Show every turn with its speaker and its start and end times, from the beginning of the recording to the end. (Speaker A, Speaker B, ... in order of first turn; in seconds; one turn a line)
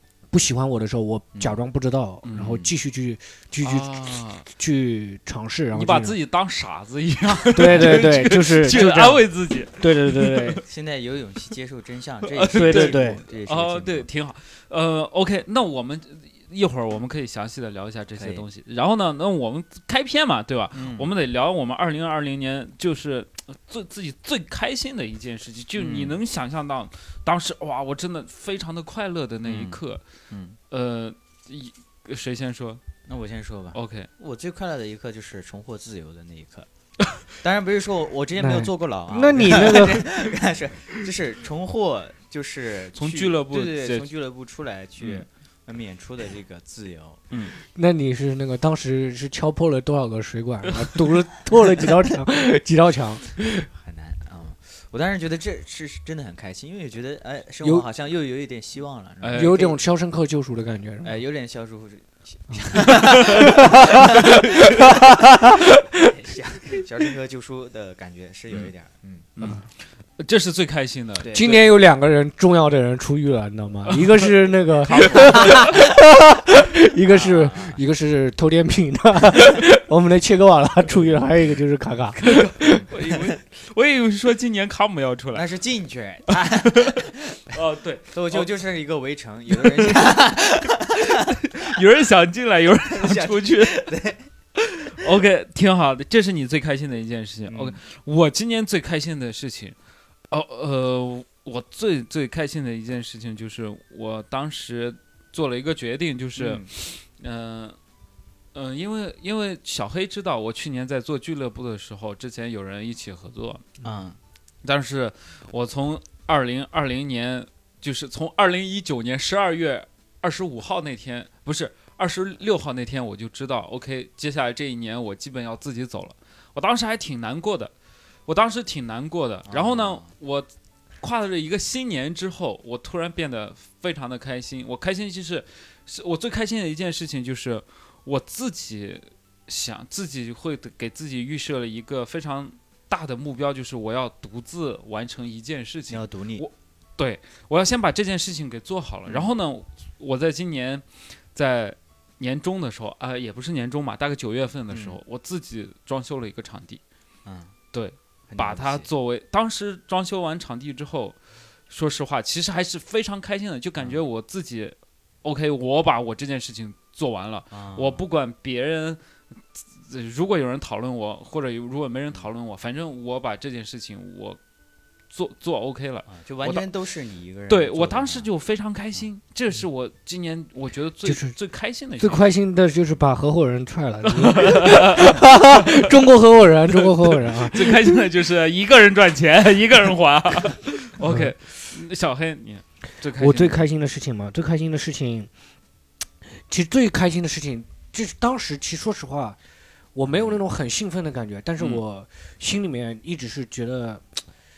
Speaker A: 0.3-3.9
Speaker B: 2.2-2.5
Speaker C: 2.4-2.7
Speaker B: 3.6-4.5
Speaker A: 4.5-6.2
Speaker B: 5.7-10.6
Speaker A: 7.5-10.6
Speaker C: 10.7-14.1
Speaker B: 12.3-30.0
Speaker A: 12.5-13.2
Speaker C: 18.2-18.4
Speaker C: 20.7-21.1
Speaker C: 25.8-26.2
Speaker C: 29.4-30.6
Speaker B: 30.7-32.8
Speaker C: 33.1-36.7
Speaker B: 33.7-34.1
Speaker C: 37.4-47.2
Speaker A: 38.4-40.1
Speaker B: 43.0-44.1
Speaker B: 45.0-45.3
Speaker B: 47.3-47.6
Speaker A: 47.7-53.7
Speaker C: 53.7-59.8
Speaker B: 59.2-59.6
Speaker A: 59.3-61.2
Speaker C: 61.0-65.1
Speaker A: 62.5-66.2
Speaker C: 66.0-69.3
Speaker B: 69.4-69.7
Speaker B: 70.2-71.6
Speaker C: 71.2-71.6
Speaker A: 71.3-82.9
Speaker B: 74.8-75.8
Speaker C: 75.0-75.6
Speaker C: 77.1-77.8
Speaker B: 82.2-85.5
Speaker C: 85.3-87.4
Speaker B: 86.5-88.5
Speaker C: 88.1-91.1
Speaker B: 89.5-93.9
Speaker C: 92.9-94.2
Speaker B: 94.6-99.8
Speaker C: 97.5-97.8
Speaker B: 100.3-107.8
Speaker C: 106.4-106.7
Speaker B: 108.5-113.7
Speaker C: 113.8-114.2
Speaker B: 114.6-127.7
Speaker B: 128.3-130.5
Speaker C: 129.5-130.1
Speaker B: 131.0-156.8
Speaker C: 145.9-146.4
Speaker C: 154.7-155.0
Speaker C: 157.2-157.6
Speaker B: 157.7-161.2
Speaker C: 158.3-158.9
Speaker B: 161.7-169.0
Speaker C: 167.5-168.0
Speaker B: 169.6-174.4
Speaker B: 175.1-176.7
Speaker C: 176.1-178.3
Speaker B: 177.5-182.2
Speaker A: 181.1-181.3
Speaker A: 182.0-188.0
Speaker B: 184.1-185.8
Speaker B: 186.7-193.7
Speaker A: 191.0-191.3
Speaker A: 193.2-195.3
Speaker A: 196.5-199.4
Speaker A: 199.9-204.1
Speaker C: 200.1-200.4